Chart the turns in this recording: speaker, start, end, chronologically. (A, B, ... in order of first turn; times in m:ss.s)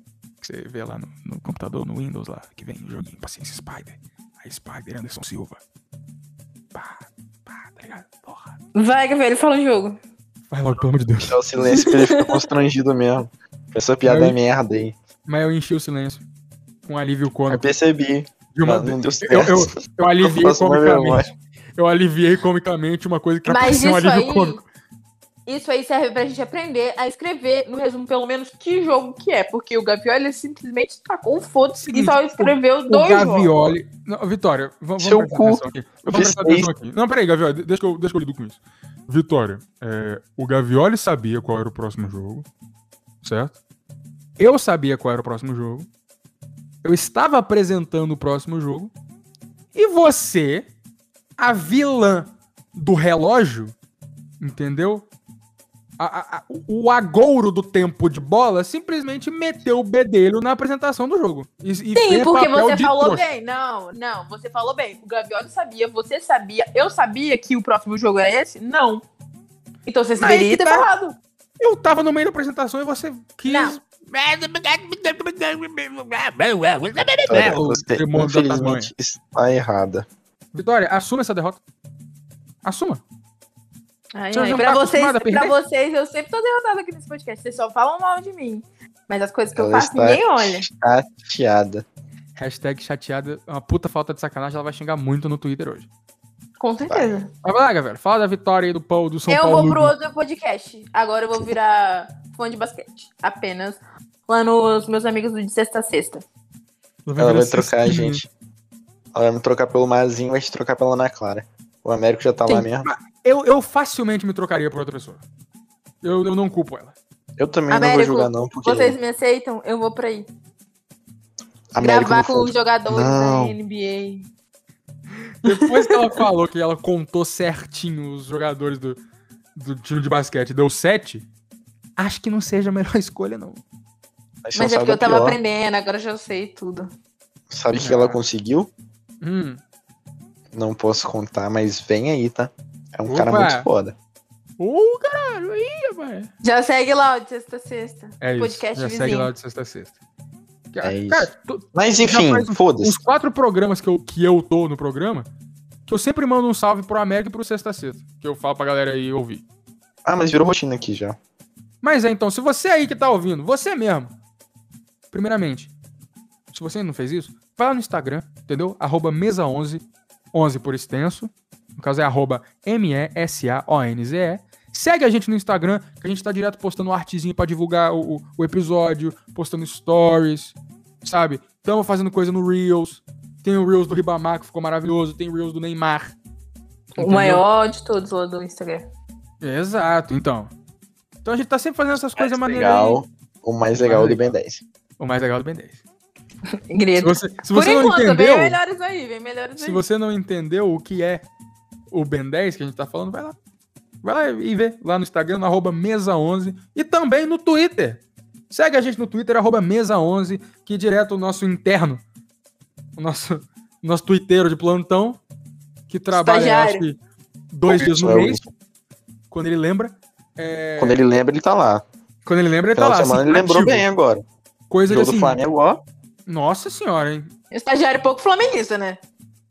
0:00.4-0:05.6 A
0:06.7-0:08.6 A
0:08.8-0:10.0 B
0:10.5-0:11.4 A
0:11.2-0:15.0 C
0:11.7-0:12.4 B
0:14.0-0:14.4 A
0:15.3-0:16.2 A
0:16.9-0:17.7 A
0:17.5-0:21.3 C
0:18.6-0:24.6 A
0:23.5-0:24.6 B
0:25.5-0:33.5 B
0:31.8-0:42.5 A
0:35.0-0:36.7 C
0:43.2-0:43.6 A
0:44.4-0:45.9 A
0:46.8-0:48.9 A
0:49.8-0:50.7 A
0:51.4-0:53.7 A
0:54.4-0:55.1 A
0:56.0-1:03.2 A
1:02.0-1:09.0 B
1:09.9-1:11.2 B
1:10.2-1:10.9 A
1:11.6-1:18.9 A
1:13.5-1:13.8 B
1:17.3-1:20.1 C
1:20.5-1:21.6 A
1:22.6-1:23.0 A
1:24.2-1:30.7 B
1:24.3-1:25.6 A
1:29.6-1:31.8 C
1:32.4-1:35.9 A
1:36.6-1:37.3 B
1:36.9-1:37.2 C
1:37.4-1:40.0 A
1:39.3-1:46.2 B
1:47.1-1:48.2 A
1:47.2-1:48.3 C
1:49.1-1:52.9 C
1:52.5-1:55.2 A
1:56.0-1:57.0 A
1:57.4-1:59.0 C
1:57.7-2:00.3 B
2:01.7-2:03.6 C
2:01.8-2:04.3 B
2:05.2-2:09.0 A
2:05.5-2:05.9 B
2:09.6-2:11.3 A
2:12.0-2:13.6 A
2:14.4-2:15.4 C
2:14.6-2:16.9 B
2:17.5-2:18.7 C
2:17.8-2:18.2 A
2:19.2-2:19.6 A
2:20.5-2:24.0 C
2:23.1-2:23.7 A
2:24.6-2:26.3 A
2:26.4-2:29.3 B
2:28.2-2:29.9 A
2:30.7-2:35.3 A
2:30.8-2:33.0 C
2:35.9-2:39.4 A
2:40.0-2:41.2 C
2:41.8-2:44.1 A
2:45.1-2:45.7 A
2:46.5-3:06.2 A
3:07.0-3:08.8 B
3:07.0-3:07.4 A
3:09.4-3:10.5 A
3:11.2-3:13.0 A
3:12.2-3:14.6 C
3:13.8-3:14.2 A
3:15.0-3:15.8 A
3:16.5-3:19.8 B
3:17.0-3:18.6 A
3:19.6-3:21.2 A
3:21.9-3:23.4 A
3:24.0-3:32.0 A
3:33.0-3:35.2 A
3:35.9-3:37.0 A
3:36.1-3:36.8 B
3:37.5-3:38.4 A
3:37.7-3:38.5 C
3:39.3-3:41.0 A
3:40.8-3:41.8 C
3:42.2-3:43.9 A
3:42.7-3:44.2 C
3:44.7-3:45.4 A
3:44.9-3:45.8 C
3:46.3-3:47.3 A
3:47.5-3:49.0 B